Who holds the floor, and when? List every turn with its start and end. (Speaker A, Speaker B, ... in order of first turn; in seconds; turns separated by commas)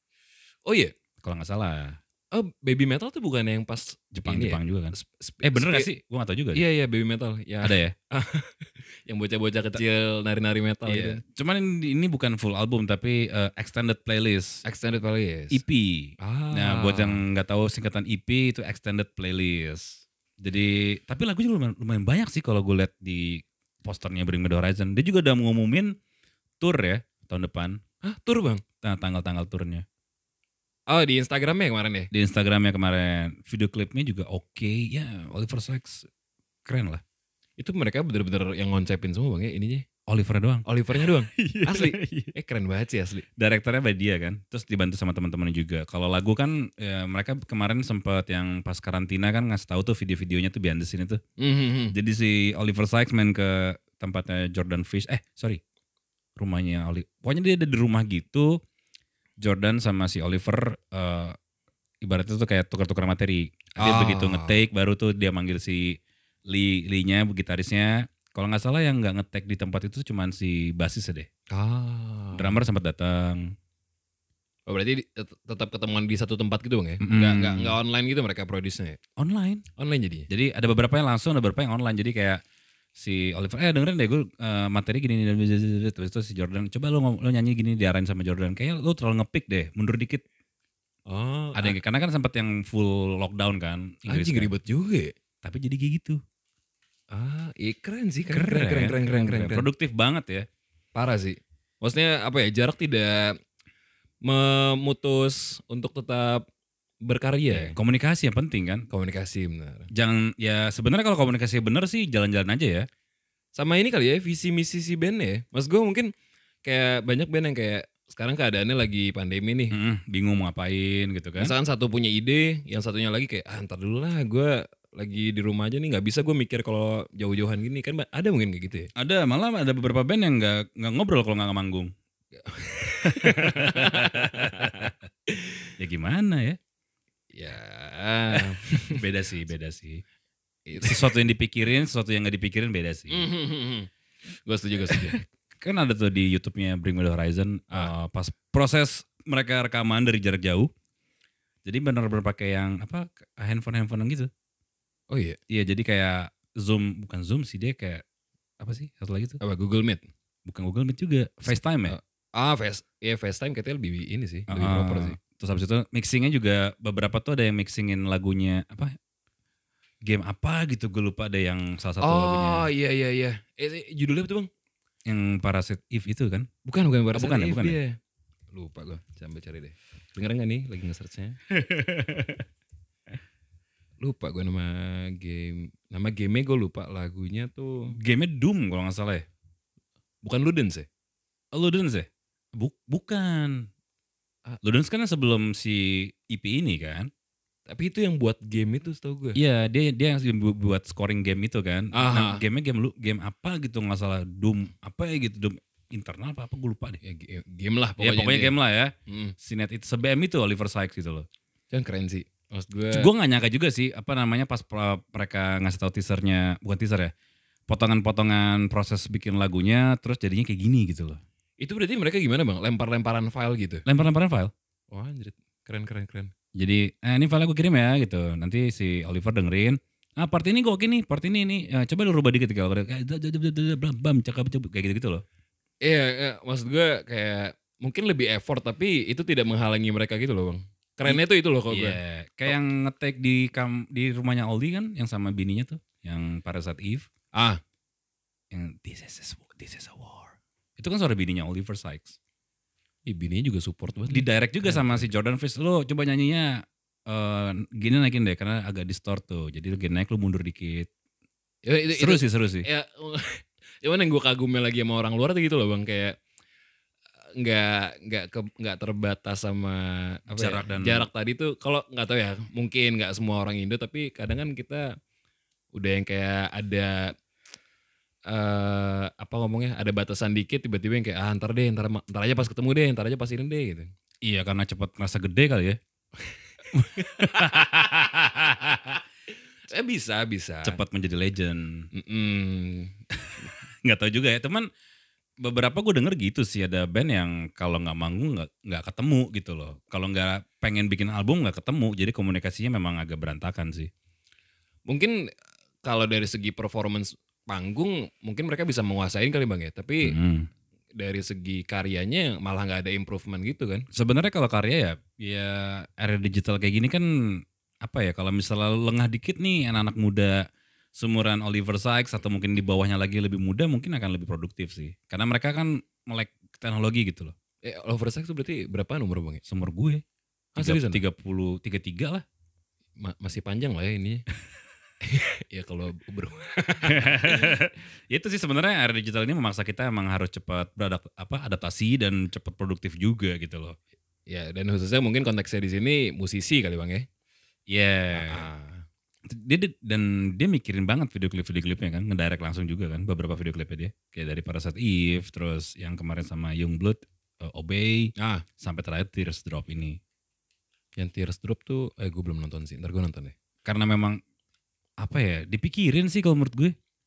Speaker A: 0.6-0.9, Speaker B: 1.2-2.0, Speaker A: 2.3-5.9, Speaker B: 4.1-6.6, Speaker A: 6.5-11.2, Speaker B: 7.6-7.9, Speaker B: 10.8-14.6, Speaker A: 14.6-15.6, Speaker B: 15.5-25.9, Speaker A: 16.2-17.2, Speaker B: 26.6-27.8, Speaker A: 28.0-28.6, Speaker B: 28.8-29.8, Speaker A: 30.9-32.1, Speaker B: 32.1-36.1, Speaker B: 36.6-37.0, Speaker A: 37.6-39.8, Speaker B: 40.1-42.3, Speaker A: 40.6-43.2, Speaker B: 43.4-51.2, Speaker A: 51.4-51.9, Speaker B: 51.9-55.6, Speaker B: 56.4-58.6, Speaker B: 59.4-61.4, Speaker B: 62.0-66.0, Speaker A: 63.8-64.6, Speaker B: 66.5-71.3, Speaker A: 71.5-72.6, Speaker B: 72.3-73.5, Speaker A: 74.7-79.0, Speaker B: 77.0-77.8, Speaker B: 79.2-79.6, Speaker A: 79.8-80.3, Speaker B: 80.3-82.4, Speaker B: 83.0-90.2, Speaker A: 91.1-91.8, Speaker B: 91.5-94.5, Speaker A: 94.1-95.1, Speaker B: 95.4-96.2, Speaker A: 97.1-99.7, Speaker B: 98.3-100.5, Speaker A: 100.9-103.4, Speaker A: 104.2-106.5, Speaker A: 107.0-107.7, Speaker B: 107.5-108.9, Speaker A: 108.9-109.9, Speaker B: 109.9-112.9, Speaker A: 113.5-116.1, Speaker A: 116.6-119.7, Speaker B: 119.7-121.5, Speaker A: 121.4-128.9, Speaker B: 128.9-131.9, Speaker A: 132.3-135.7, Speaker B: 132.9-134.9, Speaker B: 135.8-136.6, Speaker A: 137.3-139.0, Speaker B: 138.9-140.0, Speaker A: 140.7-141.2, Speaker B: 140.8-143.3, Speaker A: 143.1-143.9, Speaker A: 144.4-145.2, Speaker B: 144.9-150.7, Speaker B: 151.6-154.3, Speaker A: 155.1-155.4, Speaker B: 155.5-158.0, Speaker B: 158.6-159.4, Speaker A: 159.4-160.0, Speaker B: 160.4-162.0, Speaker A: 161.5-165.2, Speaker B: 164.5-168.9, Speaker B: 170.0-172.7, Speaker A: 172.0-174.5, Speaker B: 175.1-176.5, Speaker A: 176.6-178.0, Speaker B: 177.1-177.8, Speaker A: 178.5-181.4, Speaker B: 181.5-182.4, Speaker A: 184.0-187.9, Speaker B: 188.0-189.2, Speaker A: 190.2-190.9, Speaker B: 191.5-193.7, Speaker B: 194.6-197.1, Speaker A: 197.7-199.4, Speaker B: 199.3-207.0, Speaker A: 201.9-202.4, Speaker A: 207.0-208.5, Speaker B: 208.0-211.2, Speaker A: 209.1-209.3, Speaker A: 211.7-213.1, Speaker B: 212.9-217.1, Speaker B: 217.7-221.2, Speaker A: 221.6-223.8, Speaker B: 223.8-224.5, Speaker A: 224.9-226.3, Speaker B: 226.6-235.2, Speaker A: 235.8-242.6, Speaker B: 241.1-247.1, Speaker A: 247.3-247.6, Speaker B: 248.5-252.2, Speaker A: 253.1-255.1, Speaker B: 254.1-260.9, Speaker A: 261.6-266.1, Speaker B: 261.9-262.6, Speaker A: 267.4-274.9, Speaker B: 270.3-271.1, Speaker A: 275.7-277.1, Speaker A: 278.3-283.9, Speaker B: 284.2-285.8, Speaker B: 286.7-289.0, Speaker A: 289.7-290.8, Speaker B: 290.6-291.9, Speaker A: 291.9-292.9, Speaker B: 293.8-294.7, Speaker B: 295.4-303.9, Speaker A: 304.9-305.3, Speaker A: 305.8-310.1, Speaker B: 310.0-310.5, Speaker A: 310.9-313.9, Speaker B: 313.9-320.4, Speaker B: 320.9-327.3, Speaker A: 327.6-329.4, Speaker B: 329.4-330.0, Speaker A: 330.6-331.0, Speaker B: 330.6-332.2, Speaker A: 333.0-334.2, Speaker A: 335.0-337.5, Speaker B: 336.8-343.8, Speaker A: 344.3-347.1, Speaker B: 347.7-348.5, Speaker A: 348.1-348.8, Speaker B: 349.3-360.0, Speaker A: 358.2-358.4, Speaker A: 361.0-363.3, Speaker B: 363.6-364.2, Speaker B: 365.0-366.7